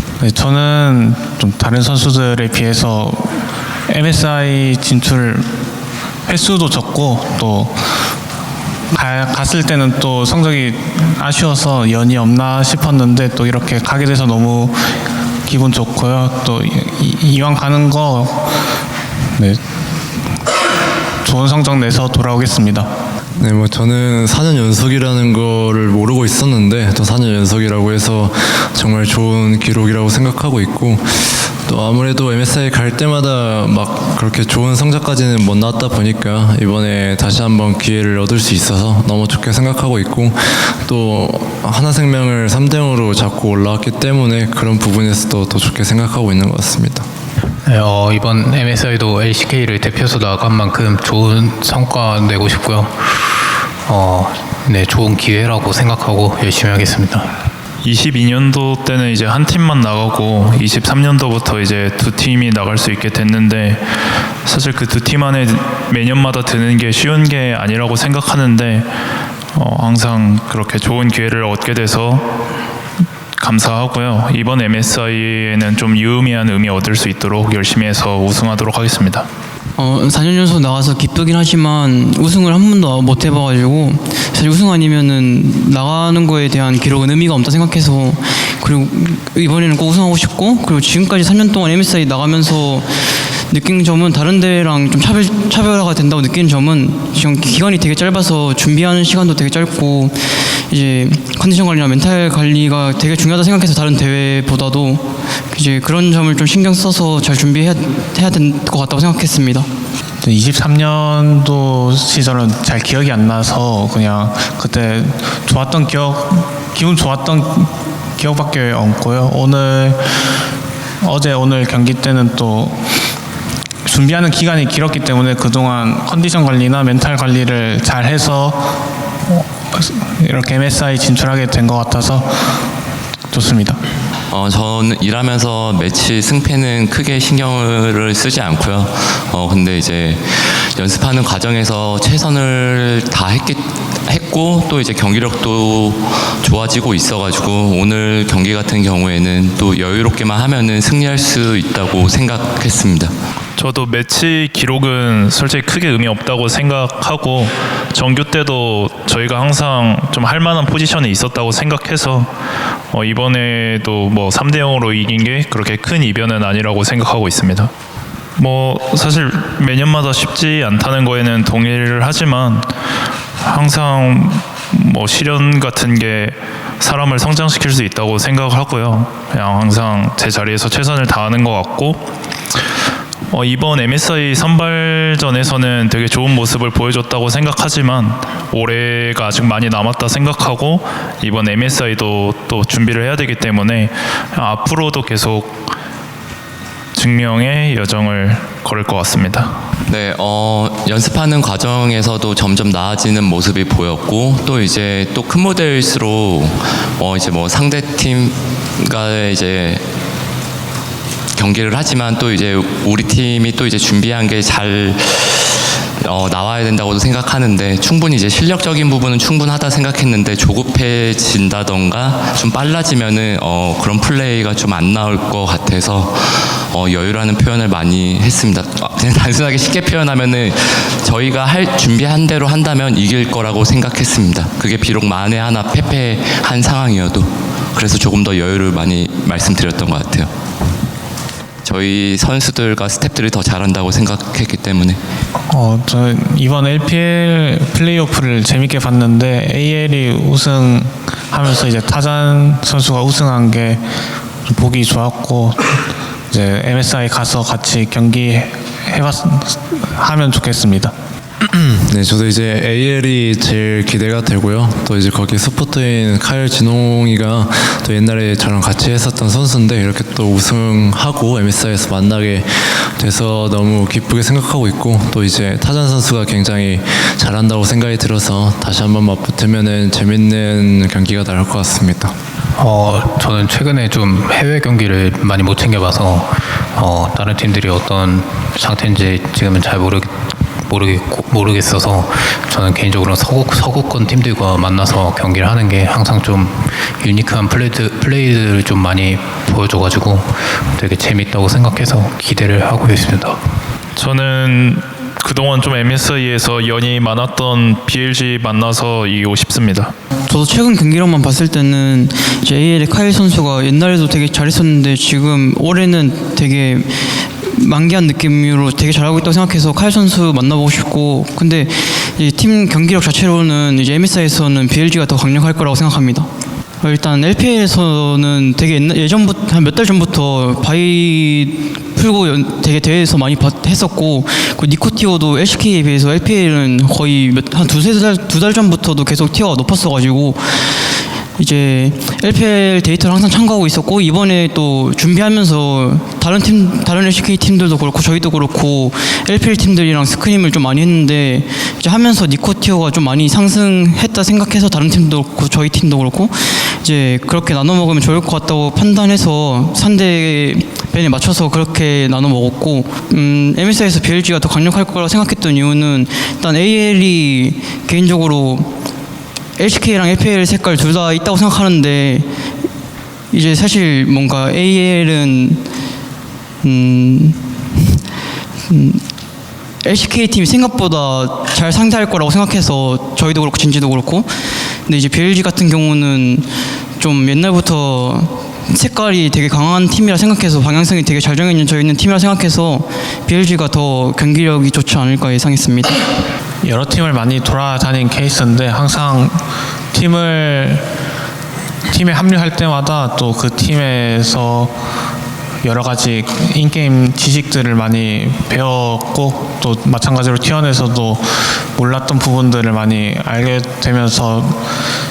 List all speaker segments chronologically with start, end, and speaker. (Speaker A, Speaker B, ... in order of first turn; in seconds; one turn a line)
Speaker A: 0.2-3.4
Speaker A: 3.9-5.5
Speaker A: 6.3-7.8
Speaker A: 8.9-14.9
Speaker A: 15.5-18.5
Speaker A: 21.2-22.9
Speaker B: 23.4-47.1
Speaker C: 47.7-53.3
Speaker C: 53.9-57.4
Speaker D: 57.8-63.8
Speaker D: 64.5-68.9
Speaker D: 69.5-72.2
Speaker D: 73.4-79.3
Speaker E: 79.8-109.7
Speaker A: 110.2-120.2
Speaker A: 121.0-122.8
Speaker A: 123.9-128.7
Speaker A: 129.7-132.4
Speaker A: 133.3-133.8
Speaker F: 134.3-153.1
Speaker D: 153.6-162.3
Speaker D: 162.9-167.7
Speaker D: 168.4-172.7
Speaker D: 173.4-182.0
Speaker D: 183.3-195.6
Speaker D: 196.9-199.6
Speaker F: 199.9-209.8
Speaker F: 211.4-240.3
Speaker F: 241.6-245.0
Speaker A: 245.5-253.8
Speaker A: 254.5-260.9
Speaker B: 261.4-282.1
Speaker C: 282.6-290.1
Speaker C: 290.7-303.4
Speaker D: 304.0-309.9
Speaker E: 310.3-326.3
Speaker E: 326.8-340.8
Speaker E: 341.4-368.7
Speaker E: 369.6-372.3
Speaker E: 373.3-375.6
Speaker E: 376.6-378.0
Speaker E: 378.7-379.0
Speaker E: 379.8-384.3
Speaker E: 384.9-386.5
Speaker E: 387.0-396.0
Speaker A: 396.6-399.4
Speaker A: 399.9-400.9
Speaker A: 401.9-404.7
Speaker A: 405.6-414.6